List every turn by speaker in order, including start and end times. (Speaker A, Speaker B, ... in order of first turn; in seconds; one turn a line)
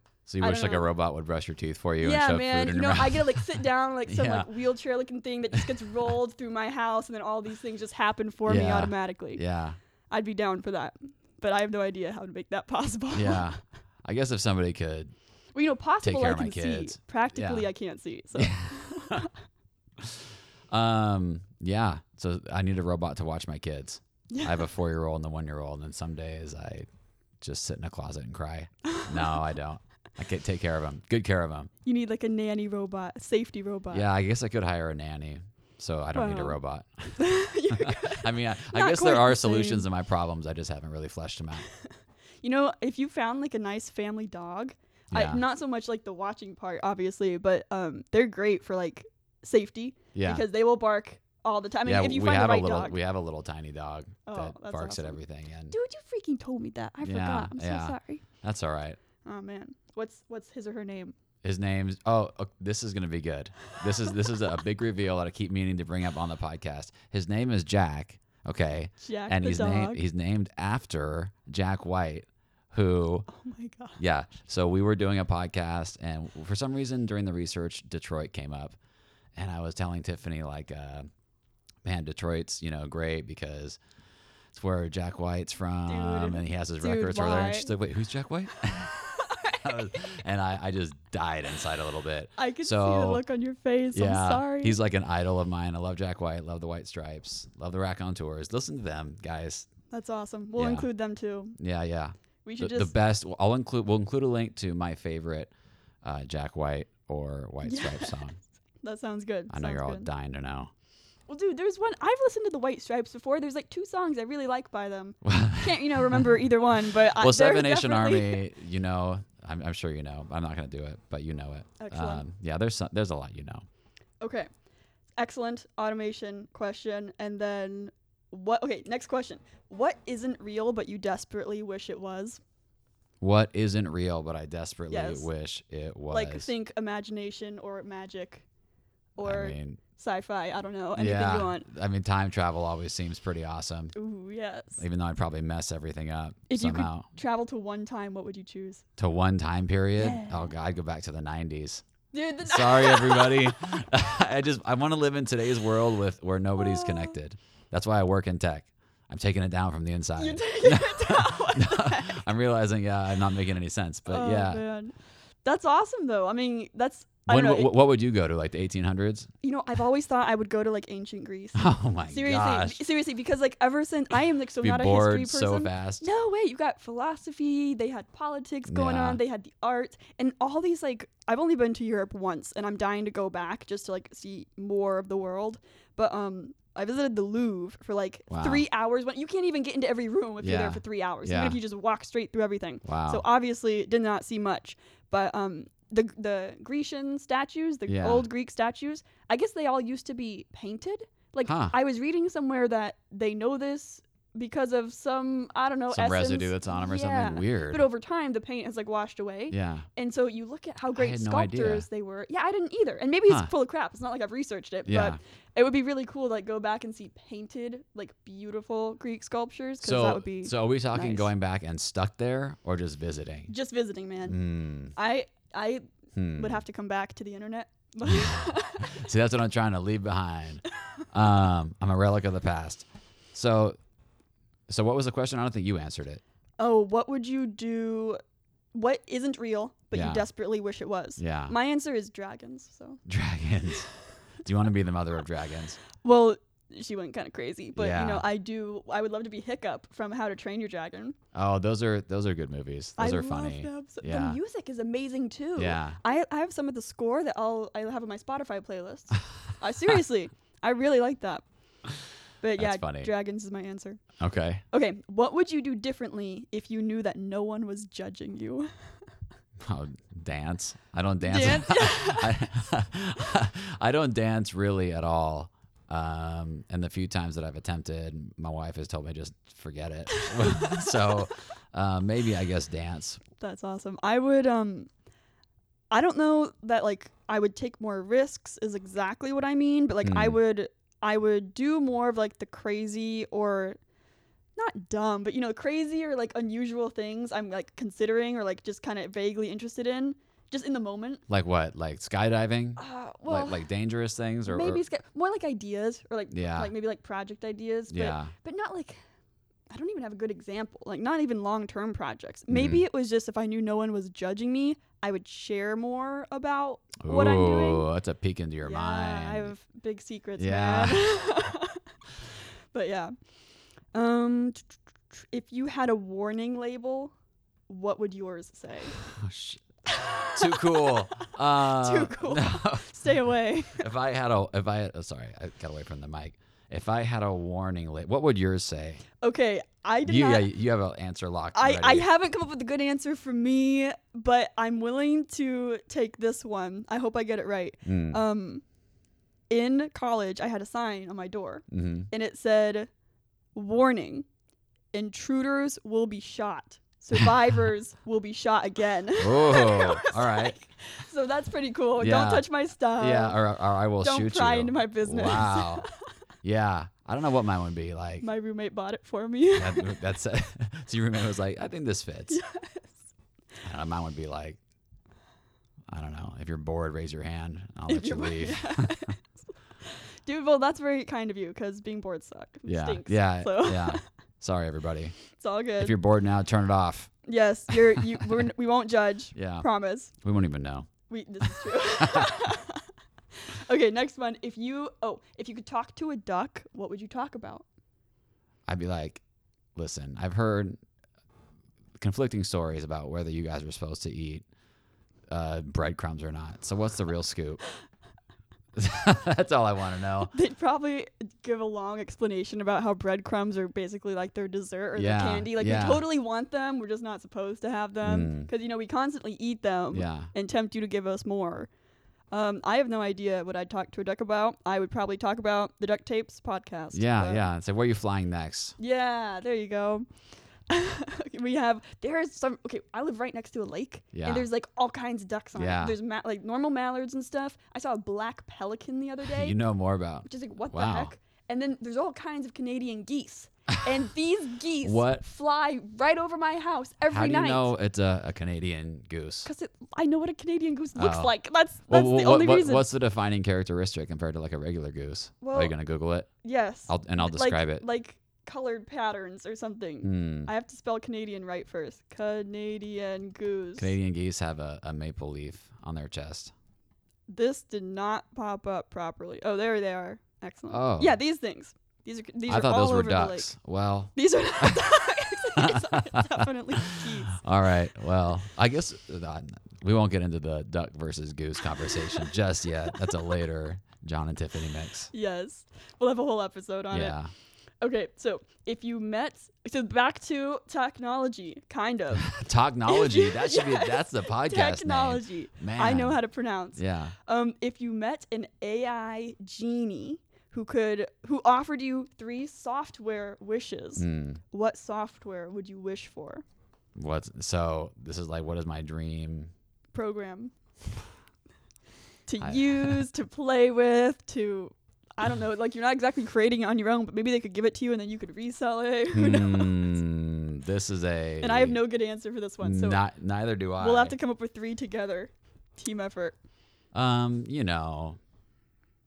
Speaker A: 0.3-4.5
Speaker B: 0.4-0.9
Speaker B: 2.0-9.4
Speaker A: 5.6-6.1
Speaker A: 8.4-9.8
Speaker B: 10.1-13.5
Speaker A: 13.1-15.1
Speaker B: 15.5-19.3
Speaker A: 16.0-17.7
Speaker A: 18.3-19.3
Speaker A: 20.0-26.9
Speaker B: 24.3-24.7
Speaker A: 27.4-31.7
Speaker B: 28.8-29.4
Speaker B: 31.8-34.1
Speaker A: 33.9-41.7
Speaker B: 36.1-36.5
Speaker B: 37.2-39.9
Speaker B: 42.4-53.0
Speaker A: 45.1-45.4
Speaker A: 50.1-50.4
Speaker A: 51.8-55.7
Speaker B: 54.2-55.2
Speaker B: 55.7-58.2
Speaker A: 57.0-59.0
Speaker B: 59.2-61.1
Speaker A: 61.4-73.3
Speaker B: 69.0-70.0
Speaker B: 73.3-74.0
Speaker A: 74.0-78.8
Speaker A: 79.4-81.1
Speaker A: 81.8-83.8
Speaker A: 84.5-93.2
Speaker B: 85.9-87.7
Speaker B: 89.0-89.6
Speaker B: 92.4-94.8
Speaker A: 93.9-99.7
Speaker B: 99.9-101.6
Speaker A: 100.5-100.9
Speaker A: 101.6-105.5
Speaker B: 102.4-102.9
Speaker A: 106.0-108.4
Speaker B: 107.6-108.2
Speaker B: 108.8-110.1
Speaker A: 109.5-110.7
Speaker B: 111.3-118.4
Speaker A: 115.2-116.3
Speaker A: 117.0-123.6
Speaker B: 121.8-122.2
Speaker B: 124.2-124.5
Speaker B: 125.2-132.4
Speaker A: 133.2-136.5
Speaker B: 134.9-135.3
Speaker B: 136.1-138.4
Speaker B: 139.2-141.7
Speaker A: 139.2-139.8
Speaker A: 140.9-143.9
Speaker B: 143.9-144.8
Speaker A: 144.8-147.1
Speaker B: 146.5-148.8
Speaker A: 149.0-151.8
Speaker B: 150.0-150.5
Speaker B: 152.1-153.8
Speaker A: 152.4-164.6
Speaker B: 156.6-157.1
Speaker B: 160.2-162.2
Speaker B: 164.1-167.7
Speaker A: 167.3-169.3
Speaker B: 169.4-221.3
Speaker A: 171.6-172.8
Speaker A: 174.6-176.0
Speaker A: 178.7-179.2
Speaker A: 188.3-188.6
Speaker A: 190.4-191.6
Speaker A: 192.8-193.2
Speaker A: 197.9-198.3
Speaker A: 201.4-201.7
Speaker A: 205.9-207.8
Speaker A: 209.5-209.9
Speaker A: 210.9-211.9
Speaker A: 214.9-215.2
Speaker A: 219.8-223.5
Speaker B: 223.5-224.4
Speaker A: 224.2-224.9
Speaker B: 224.9-225.8
Speaker A: 226.1-226.6
Speaker B: 226.4-229.0
Speaker A: 228.0-233.8
Speaker A: 234.7-236.2
Speaker B: 236.6-238.2
Speaker B: 238.7-243.0
Speaker A: 239.9-240.3
Speaker A: 241.2-241.5
Speaker A: 243.1-243.9
Speaker A: 244.4-245.8
Speaker B: 245.9-251.2
Speaker A: 247.8-248.2
Speaker A: 251.3-254.4
Speaker B: 253.0-261.4
Speaker A: 255.6-256.0
Speaker B: 262.4-264.0
Speaker A: 262.6-263.1
Speaker A: 264.2-264.6
Speaker B: 264.7-268.7
Speaker A: 269.6-283.2
Speaker B: 271.2-272.5
Speaker B: 280.1-280.9
Speaker B: 283.4-284.9
Speaker B: 285.9-293.8
Speaker A: 290.0-290.4
Speaker B: 294.6-301.2
Speaker A: 301.3-304.8
Speaker B: 302.8-303.6
Speaker B: 304.4-309.0
Speaker A: 306.3-306.7
Speaker A: 307.9-308.3
Speaker B: 309.7-317.9
Speaker A: 312.5-312.8
Speaker A: 317.0-319.5
Speaker B: 318.6-321.8
Speaker A: 320.4-321.1
Speaker B: 322.7-323.1
Speaker B: 323.9-327.1
Speaker B: 327.7-329.0
Speaker A: 328.9-329.6
Speaker B: 329.9-333.9
Speaker A: 330.3-332.9
Speaker A: 333.8-339.0
Speaker B: 339.2-340.5
Speaker A: 340.0-342.1
Speaker B: 341.5-348.6
Speaker A: 347.8-348.2
Speaker B: 349.5-352.9
Speaker A: 351.7-352.1
Speaker B: 353.5-354.2
Speaker B: 354.9-363.4
Speaker A: 359.2-360.6
Speaker A: 362.0-362.5
Speaker A: 363.0-365.9
Speaker B: 364.0-365.9
Speaker A: 366.4-368.3
Speaker B: 368.2-370.0
Speaker A: 369.5-372.4
Speaker B: 372.3-373.1
Speaker A: 373.6-374.6
Speaker A: 375.9-379.1
Speaker B: 377.9-379.3
Speaker B: 379.8-384.0
Speaker A: 382.7-385.2
Speaker B: 385.3-385.9
Speaker A: 385.8-387.1
Speaker B: 387.2-390.1
Speaker A: 387.7-388.2
Speaker A: 389.3-389.6
Speaker A: 390.2-390.9
Speaker B: 391.1-392.9
Speaker A: 391.6-392.4
Speaker B: 393.4-397.6
Speaker A: 398.7-399.2
Speaker A: 399.8-400.8
Speaker A: 402.0-404.4
Speaker A: 405.3-407.6
Speaker A: 408.7-410.3
Speaker B: 410.3-421.7
Speaker A: 414.9-416.0
Speaker A: 418.0-418.5
Speaker A: 419.9-420.3
Speaker B: 422.3-427.4
Speaker A: 426.9-428.8
Speaker B: 428.8-430.1
Speaker B: 430.7-439.6
Speaker A: 434.1-434.5
Speaker A: 435.5-435.9
Speaker A: 439.2-441.1
Speaker B: 440.2-447.7
Speaker A: 444.8-445.2
Speaker A: 447.1-449.5
Speaker B: 449.4-452.9
Speaker A: 450.9-451.3
Speaker A: 451.9-456.3
Speaker B: 455.4-455.7
Speaker B: 456.4-463.9
Speaker A: 456.9-457.8
Speaker A: 460.0-460.5
Speaker A: 463.8-466.5
Speaker B: 467.3-473.5
Speaker A: 470.7-471.2
Speaker A: 472.5-474.9
Speaker B: 474.1-477.4
Speaker A: 475.6-485.1
Speaker B: 485.1-487.1
Speaker A: 486.9-487.3
Speaker B: 487.8-492.3
Speaker A: 492.2-496.2
Speaker B: 492.9-506.4
Speaker A: 496.8-497.1
Speaker A: 504.0-504.4
Speaker A: 506.9-509.5
Speaker B: 509.9-510.5
Speaker B: 512.3-520.0
Speaker A: 512.4-513.0
Speaker A: 519.1-521.8
Speaker B: 521.4-523.0
Speaker A: 522.6-524.1
Speaker B: 523.8-526.3
Speaker A: 526.9-528.2